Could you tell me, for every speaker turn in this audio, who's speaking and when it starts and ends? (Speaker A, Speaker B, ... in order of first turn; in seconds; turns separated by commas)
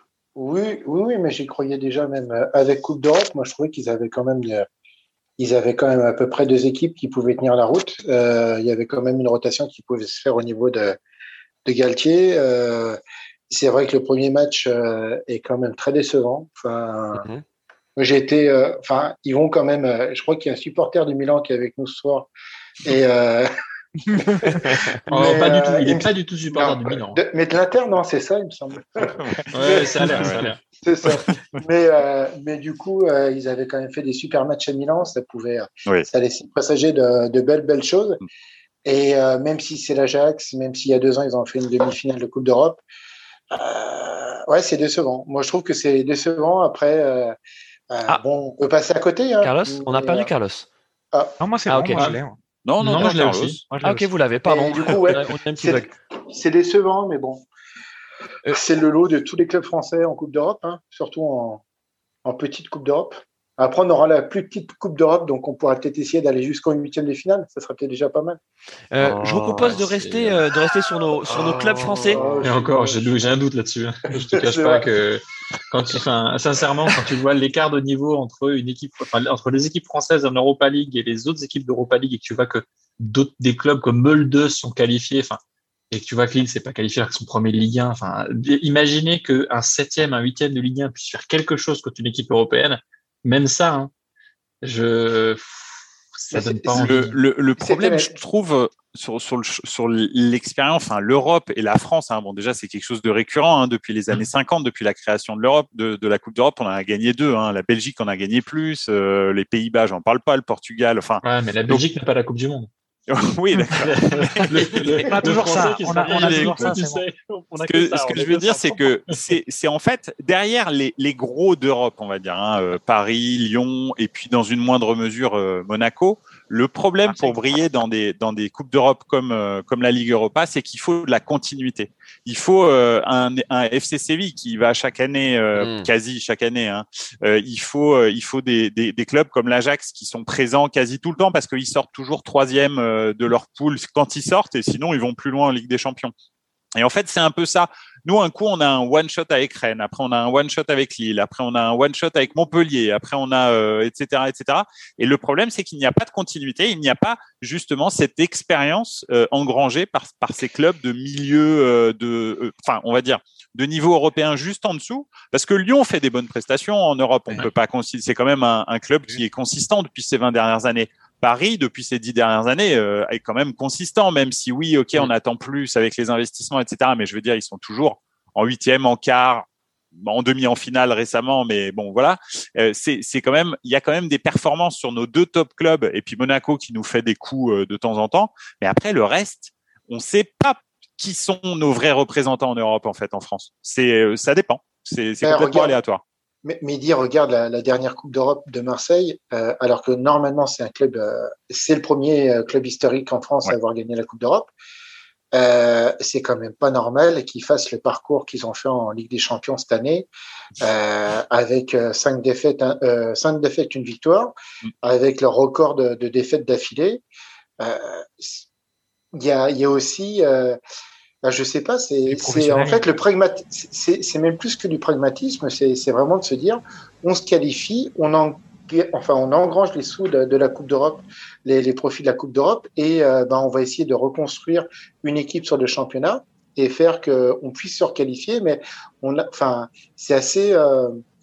Speaker A: 0.4-4.7, Speaker A: 5.4-11.0, Speaker A: 11.7-13.0, Speaker A: 13.5-17.2, Speaker B: 17.2-17.4, Speaker A: 18.0-22.3, Speaker A: 22.8-23.5, Speaker A: 25.1-38.2, Speaker C: 25.1-27.2, Speaker D: 29.2-30.4, Speaker C: 29.5-30.6, Speaker A: 38.9-42.8, Speaker A: 43.5-47.4, Speaker A: 47.9-50.3, Speaker B: 49.4-50.7, Speaker E: 51.4-52.4, Speaker B: 51.7-52.0, Speaker D: 52.6-53.6, Speaker C: 52.8-53.6, Speaker E: 53.7-54.1, Speaker B: 53.8-55.9, Speaker A: 54.5-57.5, Speaker A: 58.5-61.6, Speaker A: 62.2-68.4, Speaker B: 68.9-72.2, Speaker C: 69.2-70.5, Speaker C: 71.4-85.4, Speaker A: 72.1-73.3, Speaker A: 74.3-74.9, Speaker C: 85.9-93.9, Speaker C: 94.6-97.2, Speaker A: 96.3-97.0, Speaker D: 96.8-111.8, Speaker A: 97.6-98.2, Speaker C: 111.2-112.7, Speaker D: 113.1-115.1, Speaker C: 113.8-119.2, Speaker E: 115.1-117.0, Speaker B: 116.1-116.7, Speaker D: 117.6-146.1, Speaker E: 127.0-127.4, Speaker B: 135.6-135.9, Speaker D: 146.8-179.5, Speaker D: 180.0-196.0, Speaker A: 195.2-195.8, Speaker A: 196.4-204.5, Speaker A: 205.3-210.1, Speaker A: 210.6-217.0, Speaker A: 217.6-218.4, Speaker A: 219.1-220.6, Speaker A: 221.2-241.0, Speaker E: 222.1-222.8